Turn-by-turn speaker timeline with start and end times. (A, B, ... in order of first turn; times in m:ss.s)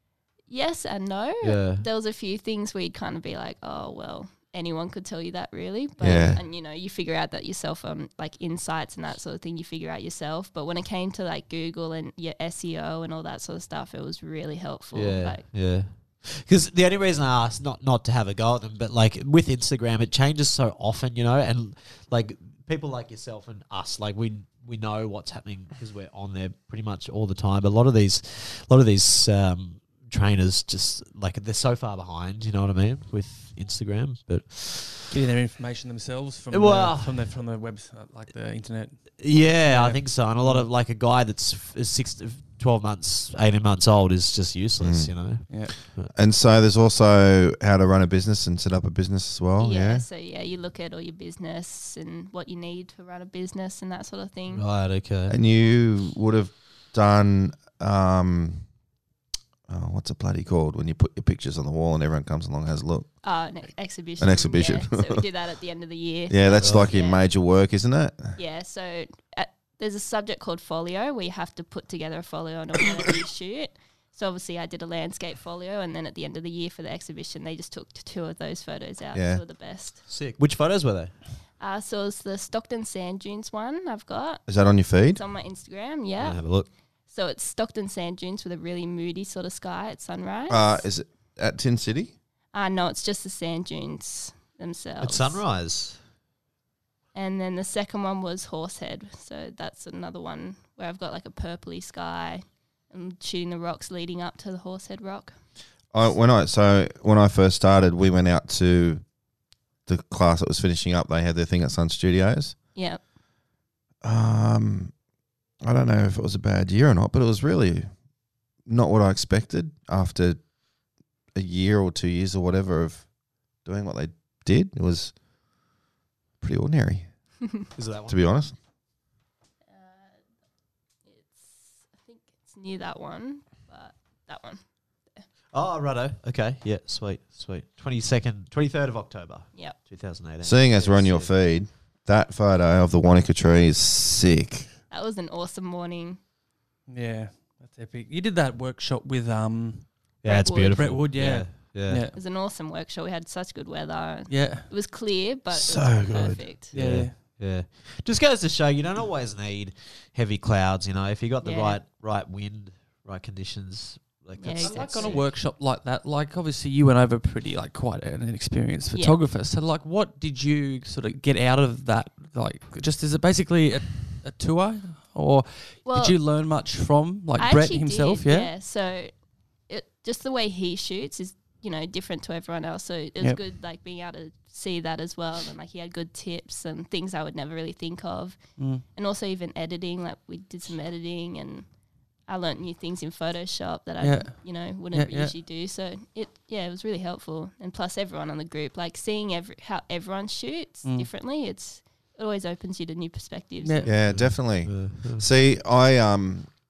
0:00.5-0:15.4 A
0:01.4-0:01.8 B
0:06.0-0:06.4 C
0:14.9-0:35.1 B
0:35.1-0:39.0 D
0:36.5-0:37.2 B
0:39.2-0:46.1 B
0:39.6-0:40.7 D
0:44.8-0:45.1 C
0:45.5-0:45.7 D
0:46.1-0:50.0 C
0:49.6-0:54.6 A
0:54.5-0:55.4 B
0:55.3-0:58.6 C
0:59.7-1:03.1 C
1:03.2-1:07.2 A
1:04.2-1:05.2 C
1:06.3-1:08.4 C
1:06.6-1:06.9 B
1:08.4-1:20.0 A
1:19.1-1:19.4 C
1:20.1-1:21.1 B
1:21.6-1:24.4 A
1:24.5-1:25.2 C
1:25.1-1:26.4 A
1:26.2-1:26.7 B
1:27.1-1:30.8 A
1:30.5-1:32.1 C
1:32.5-1:35.4 A
1:35.0-1:36.0 B
1:37.1-1:45.4 A
1:45.9-1:49.0 C
1:49.8-1:52.5 C
1:52.7-1:53.0 A
1:54.0-1:54.9 C
1:55.6-1:57.9 C
1:58.7-2:00.4 C
2:01.3-2:03.0 C
2:03.6-2:05.1 C
2:06.4-2:07.1 C
2:07.7-2:08.2 B
2:08.1-2:08.5 C
2:09.7-2:10.2 A
2:11.0-2:14.6 A
2:15.5-2:21.3 B
2:20.4-2:24.7 C
2:24.9-2:26.2 A
2:26.9-2:30.0 D
2:30.2-2:32.0 B
2:30.2-2:30.8 A
2:30.7-2:32.1 D
2:32.1-2:36.7 A
2:34.3-2:34.7 D
2:35.5-2:36.4 C
2:36.7-2:37.1 D
2:36.7-2:45.3 B
2:41.4-2:41.8 A
2:44.4-2:45.2 A
2:44.6-2:58.5 D
2:48.9-2:49.2 A
2:55.8-2:56.2 A
2:57.4-2:59.1 A
2:59.7-3:11.7 A
3:08.6-3:08.8 D
3:12.3-3:23.9 A
3:14.0-3:15.3 D
3:20.8-3:21.1 D
3:23.6-3:23.9 D
3:23.8-3:26.5 C
3:24.1-3:25.2 B